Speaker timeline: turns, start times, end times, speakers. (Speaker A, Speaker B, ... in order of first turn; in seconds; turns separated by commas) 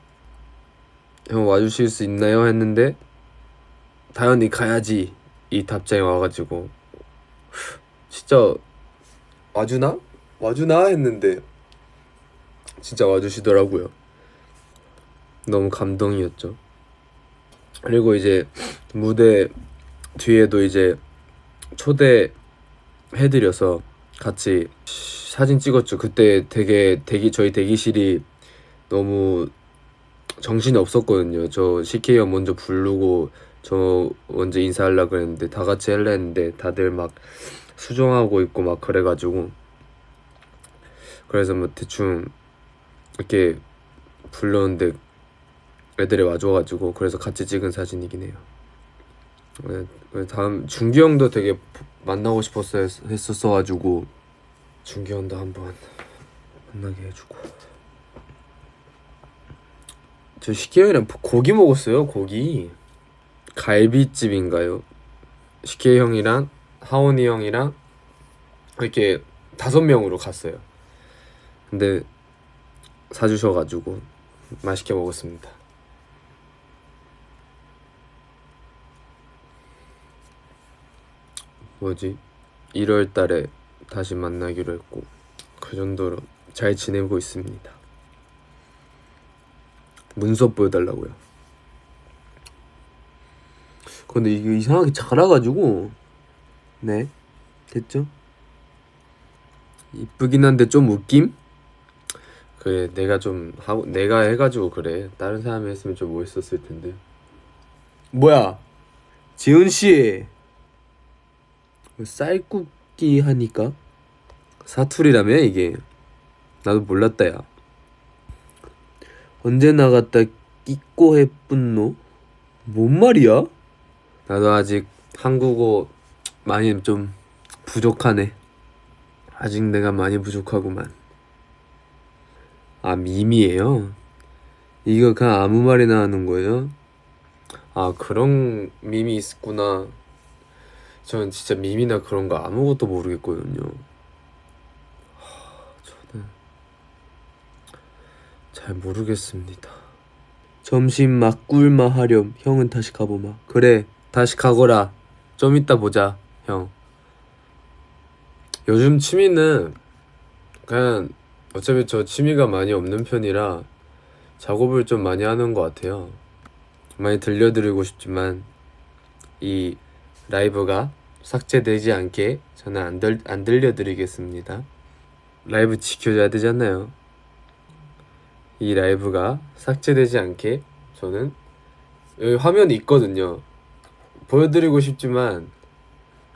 Speaker A: 1.3-3.0, Speaker A: 4.1-6.7, Speaker A: 7.5-8.6, Speaker A: 9.5-11.4, Speaker A: 12.8-13.9, Speaker A: 15.4-16.6, Speaker A: 17.8-19.5, Speaker A: 20.1-21.0, Speaker A: 21.7-22.4, Speaker A: 23.1-28.2, Speaker A: 28.9-29.5, Speaker A: 30.4-39.5, Speaker A: 41.3-42.3, Speaker A: 43.2-43.6, Speaker A: 44.3-45.0, Speaker A: 46.0-48.4, Speaker A: 49.6-54.1, Speaker A: 54.8-55.8, Speaker A: 56.7-57.5, Speaker A: 60.4-62.8, Speaker A: 63.5-64.8, Speaker A: 65.6-67.8, Speaker A: 68.8-70.6, Speaker A: 71.7-72.1, Speaker A: 73.1-74.0, Speaker A: 74.6-75.6, Speaker A: 81.8-82.2, Speaker A: 82.7-87.8, Speaker A: 90.1-91.2, Speaker A: 94.1-96.0, Speaker A: 96.8-97.1, Speaker A: 97.7-98.1, Speaker A: 99.9-101.4, Speaker A: 102.6-107.0, Speaker A: 108.1-108.6, Speaker A: 109.3-110.3, Speaker A: 112.0-113.8, Speaker A: 114.6-115.8, Speaker A: 116.6-117.5, Speaker A: 119.4-122.0, Speaker A: 122.7-123.5, Speaker A: 124.3-125.9, Speaker A: 126.4-128.4, Speaker A: 129.3-130.9, Speaker A: 132.8-134.0, Speaker A: 134.8-136.7, Speaker A: 137.7-139.9, Speaker A: 141.0-143.8, Speaker A: 145.2-146.3, Speaker A: 148.5-149.8, Speaker A: 150.6-156.7, Speaker A: 158.7-159.8, Speaker A: 160.6-163.7, Speaker A: 164.4-166.2, Speaker A: 167.0-168.5, Speaker A: 169.4-174.7, Speaker A: 175.4-176.9, Speaker A: 178.6-181.4, Speaker A: 182.2-183.4, Speaker A: 184.2-185.5